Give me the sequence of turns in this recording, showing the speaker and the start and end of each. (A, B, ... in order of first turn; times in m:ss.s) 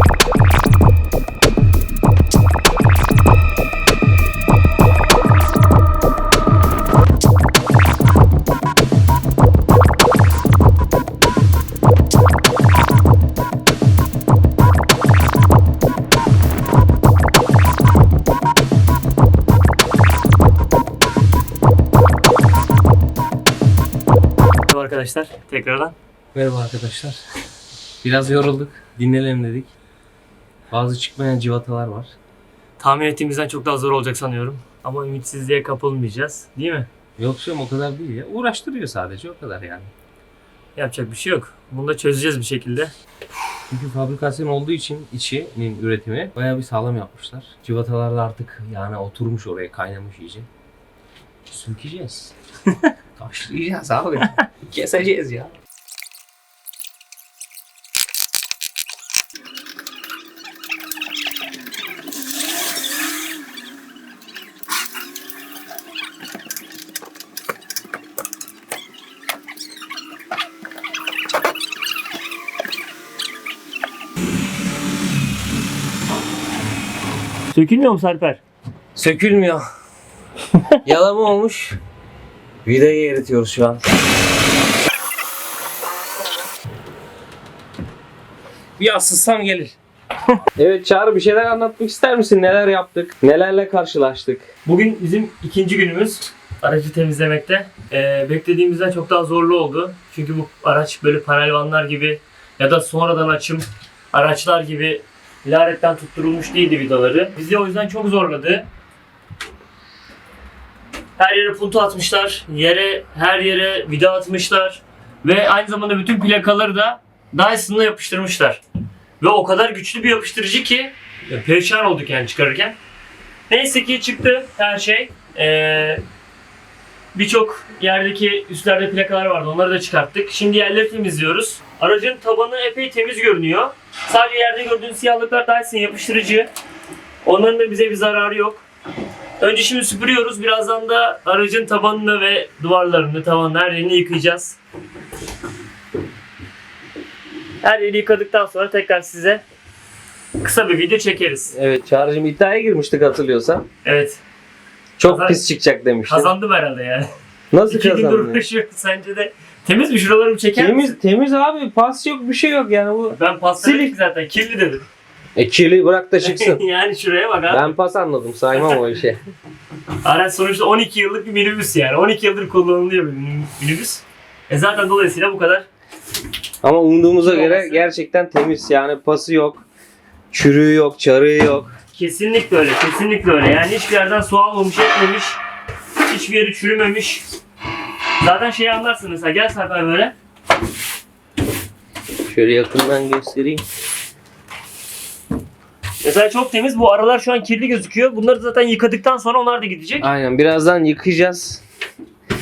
0:24.7-0:26.0 A
0:26.3-0:27.2 B
0:28.0-0:29.7 B
0:30.7-0:32.1 B
0:32.8-0:36.9 A
0:37.2-0:39.9 B
0:40.8-0:42.9 A
0:43.7-0:50.5 B
0:51.5-0:52.3 B
0:53.2-0:55.5 B
1:17.5-1:18.4 A
1:19.0-1:19.6 B
1:20.8-1:21.8 B
1:22.6-1:23.8 B
1:28.8-1:29.7 B
1:30.6-1:34.5 B
1:34.6-1:48.7 A
1:51.2-1:58.6 A
1:59.2-2:02.8 A
2:03.5-2:06.0 A
2:07.1-2:16.5 A
2:17.2-2:18.6 A
2:19.4-2:24.6 A
2:27.6-2:29.4 A
2:30.4-2:31.5 A
2:31.5-2:33.6 B
2:33.8-2:34.2 A
2:35.0-2:36.3 B
2:35.0-2:35.4 A
2:36.0-2:37.1 A
2:37.5-2:38.4 B
2:37.7-2:41.0 A
2:40.5-2:43.9 B
2:43.1-2:44.9 A
2:45.4-2:46.6 B
2:46.2-2:47.8 A
2:47.5-2:49.2 B
2:50.0-2:55.7 A
2:56.6-2:59.6 B
2:57.2-2:57.9 A
3:00.3-3:01.7 B
3:01.9-3:05.4 A
3:06.0-3:07.2 A
3:08.2-3:10.1 A
3:12.3-3:13.6 B
3:16.0-3:20.1 A
3:20.0-3:21.6 B